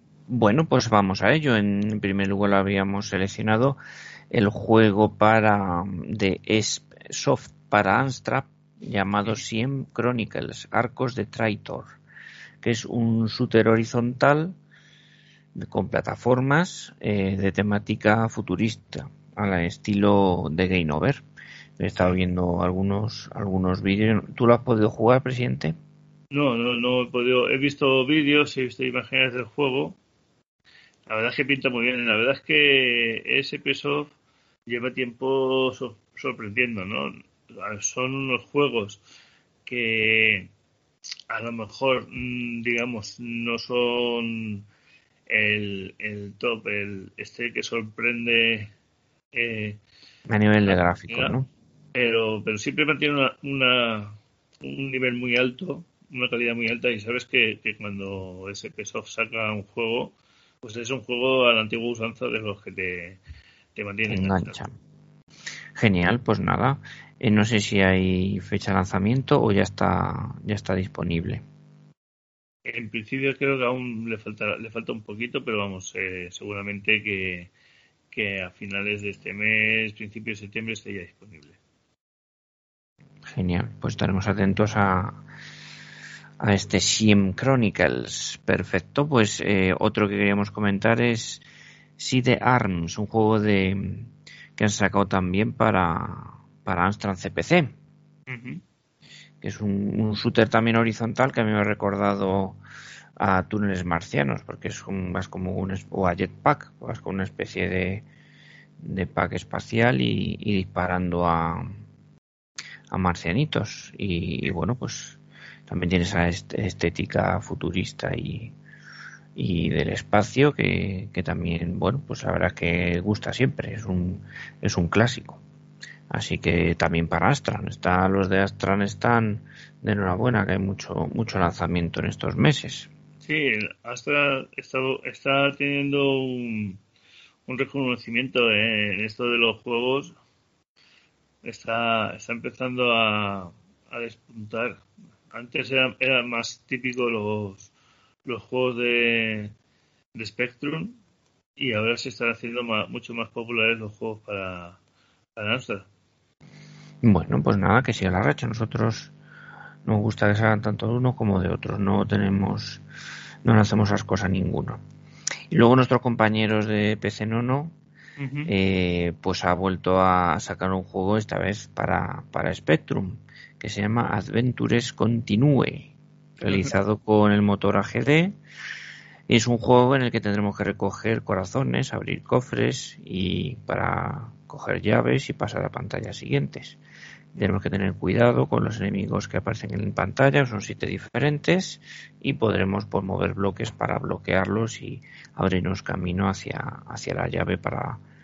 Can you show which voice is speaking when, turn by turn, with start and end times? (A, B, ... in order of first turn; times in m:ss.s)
0:00.3-0:03.8 A
0:04.3-0:12.0 A
0:12.6-0:14.5 A
0:15.6-0:21.2 A
0:21.8-0:25.8 A
0:26.3-0:30.0 B
0:31.1-0:34.1 B
0:34.7-0:39.0 B
0:39.6-0:40.5 B
0:41.3-0:44.6 B
0:45.3-0:48.7 B
0:49.3-0:49.8 B
0:50.3-0:51.5 A
0:50.6-0:51.3 B
0:51.9-1:03.2 B
1:03.8-1:04.6 B
1:04.1-1:04.7 A
1:05.8-1:11.4 A
1:12.6-1:17.5 B
1:18.1-1:21.6 B
1:23.3-1:25.2 A
1:26.4-1:31.4 A
1:32.0-1:37.7 A
1:38.3-1:38.6 B
1:39.4-1:42.6 A
1:43.2-1:48.0 A
1:48.8-1:51.8 A
1:52.9-1:58.5 A
1:59.4-2:05.4 A
2:06.1-2:12.9 A
2:13.2-2:16.8 B
2:17.5-2:20.1 B
2:21.4-2:27.7 B
2:28.2-2:29.5 B
2:30.1-2:31.0 B
2:31.6-2:34.8 B
2:35.4-2:35.9 B
2:37.0-2:39.1 A
2:39.8-2:42.8 A
2:43.4-2:44.8 A
2:45.5-2:47.7 A
2:48.2-2:48.5 B
2:48.5-2:58.3 A
2:56.4-2:56.7 B
2:59.3-3:06.8 A
3:07.3-3:18.0 A